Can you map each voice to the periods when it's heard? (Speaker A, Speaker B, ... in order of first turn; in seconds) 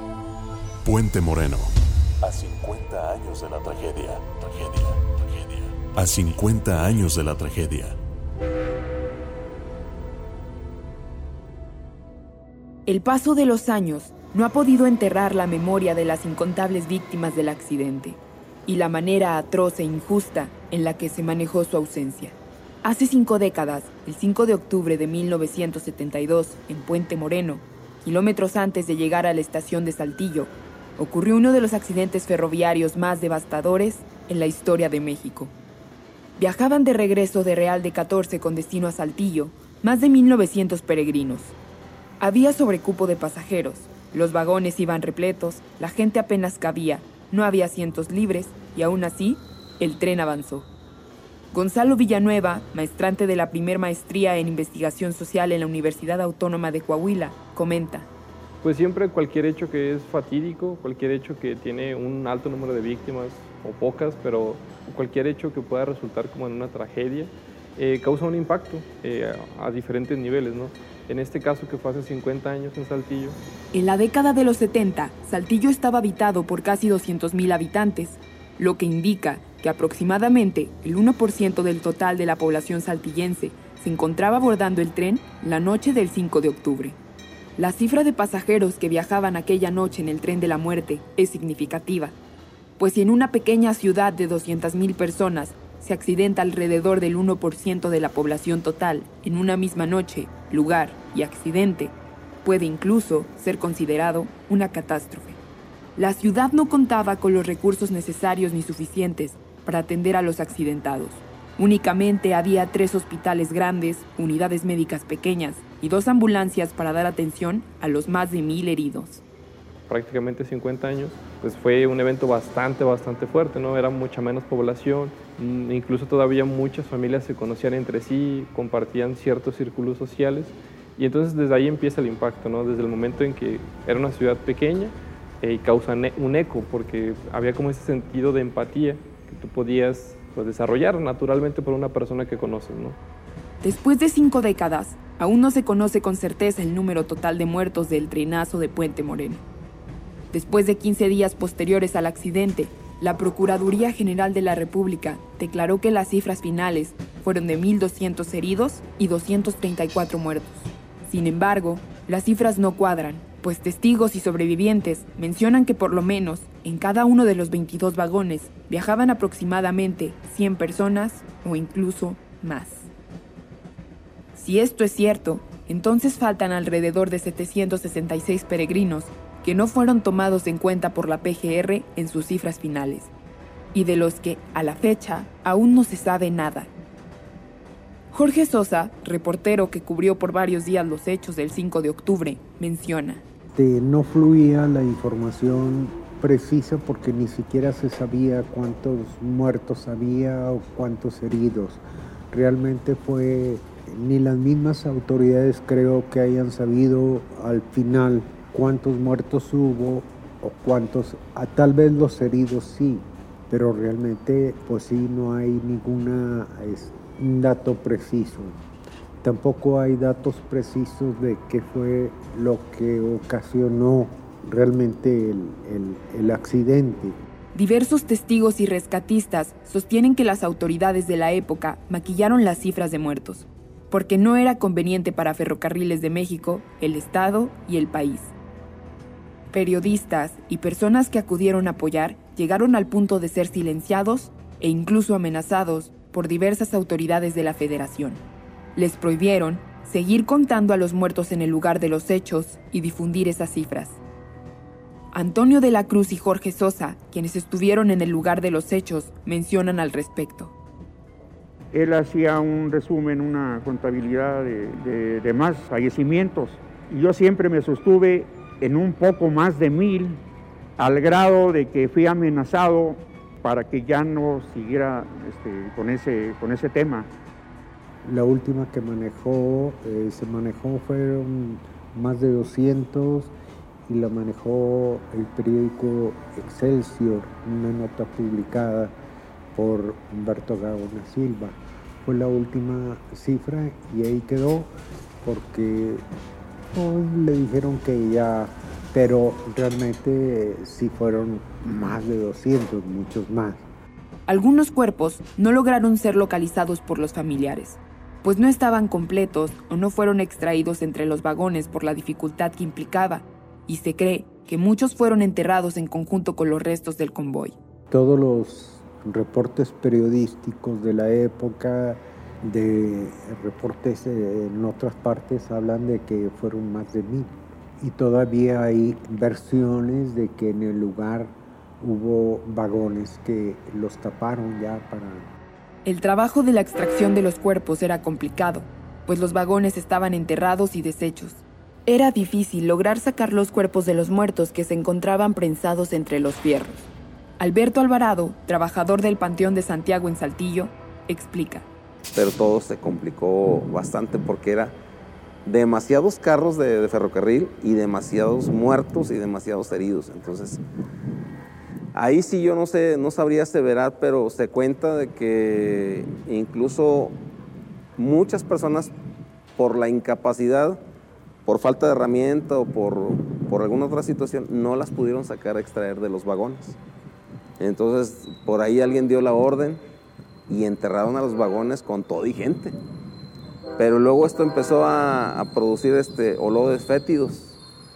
Speaker A: 0.8-1.7, 2.2-8.0
Speaker B: 12.9-35.5, 36.4-41.5, 42.2-50.7, 51.5-58.1, 73.7-87.0, 87.6-92.1, 92.8-105.4, 106.0-119.2, 143.6-149.4, 150.3-172.9, 174.3-183.1, 183.7-186.7, 188.1-193.2, 227.5-238.3, 239.5-248.2, 248.8-254.0, 255.1-260.5, 304.3-317.5, 335.8-346.9, 347.4-351.7
Speaker C: 58.6-73.4, 119.9-143.0
Speaker D: 193.6-218.6, 219.2-227.2, 278.0-283.3, 283.9-288.9, 289.5-296.0, 296.7-303.6, 317.9-335.2
Speaker E: 261.7-270.2, 270.8-277.1
Speaker F: 352.1-354.7, 355.4-360.6, 361.9-367.1, 368.0-368.9, 369.6-370.8, 371.4-376.7, 377.6-379.8, 380.5-382.7, 383.8-387.5